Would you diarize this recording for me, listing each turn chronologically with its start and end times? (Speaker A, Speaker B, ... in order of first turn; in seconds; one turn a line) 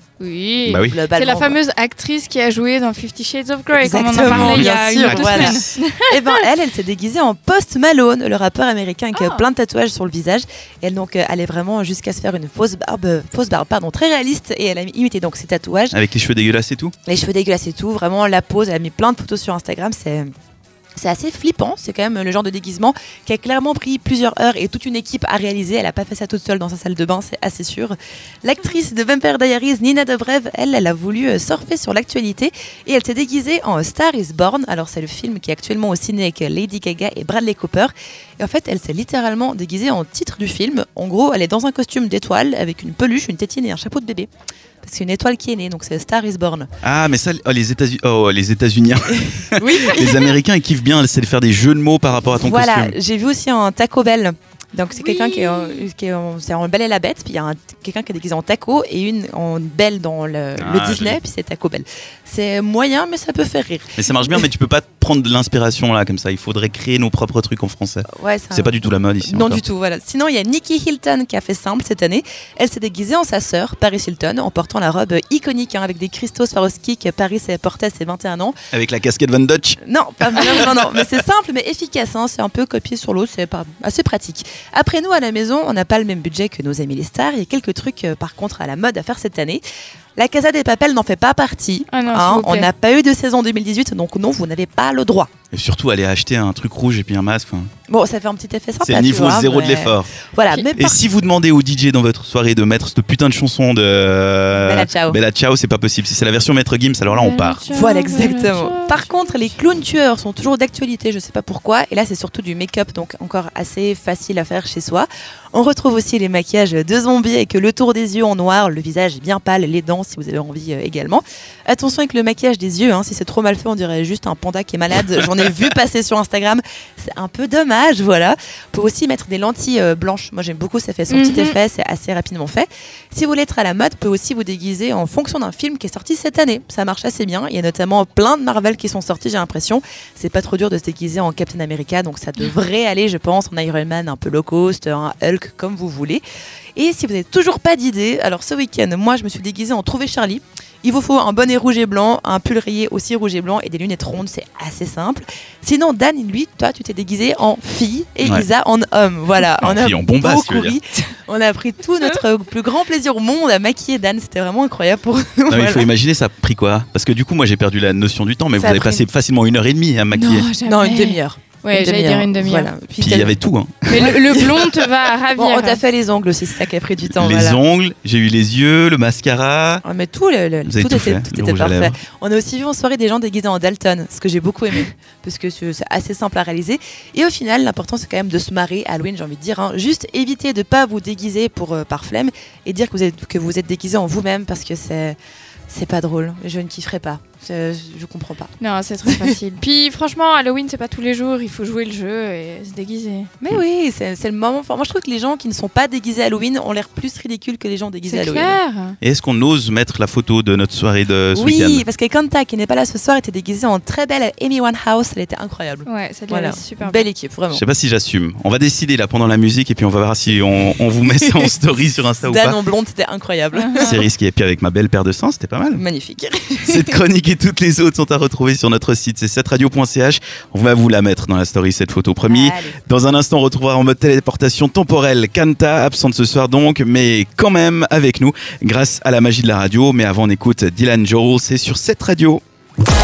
Speaker A: 0.2-6.4
Speaker B: 0.7-1.0
Speaker C: 0.8-1.6
Speaker C: 3.7-16.0
Speaker B: 4.2-5.8
Speaker A: 9.1-9.5
Speaker B: 15.9-16.9
Speaker C: 17.1-20.3
Speaker C: 21.0-44.3
Speaker C: 44.8-46.7
Speaker B: 46.8-53.0
Speaker C: 49.5-50.4
Speaker C: 52.2-64.5
Speaker A: 55.0-55.9
Speaker B: 60.6-61.2
Speaker B: 64.0-69.6
Speaker C: 68.1-78.5
Speaker B: 78.7-81.0
Speaker C: 79.8-89.6
Speaker C: 90.2-95.3
Speaker A: 91.9-92.7
Speaker B: 95.5-97.7
Speaker C: 97.9-101.0
Speaker B: 98.8-100.1
Speaker B: 100.8-107.6
Speaker C: 104.5-105.2
Speaker A: 107.1-109.5
Speaker C: 107.7-146.2
Speaker A: 131.1-131.6
Speaker C: 146.8-165.9
Speaker B: 159.6-160.8
Speaker B: 165.5-170.5
Speaker C: 168.6-169.0
Speaker A: 170.1-172.7
Speaker C: 170.6-173.4
Speaker B: 173.0-174.1
Speaker A: 173.9-175.8
Speaker C: 173.9-174.8
Speaker C: 175.3-177.6
Speaker B: 177.1-179.8
Speaker C: 179.8-195.2
Speaker B: 180.7-182.0
Speaker C: 195.7-198.5
Speaker A: 198.6-203.3
Speaker C: 199.1-199.3
Speaker C: 203.4-208.6
Speaker A: 208.1-209.0
Speaker B: 209.0-211.8
Speaker C: 211.3-217.6
Speaker A: 215.8-217.1
Speaker B: 217.5-222.6
Speaker C: 221.1-221.4
Speaker C: 222.2-224.0
Speaker A: 223.5-224.0
Speaker B: 223.8-225.8
Speaker C: 225.7-227.0
Speaker B: 226.7-242.4
Speaker C: 232.2-232.8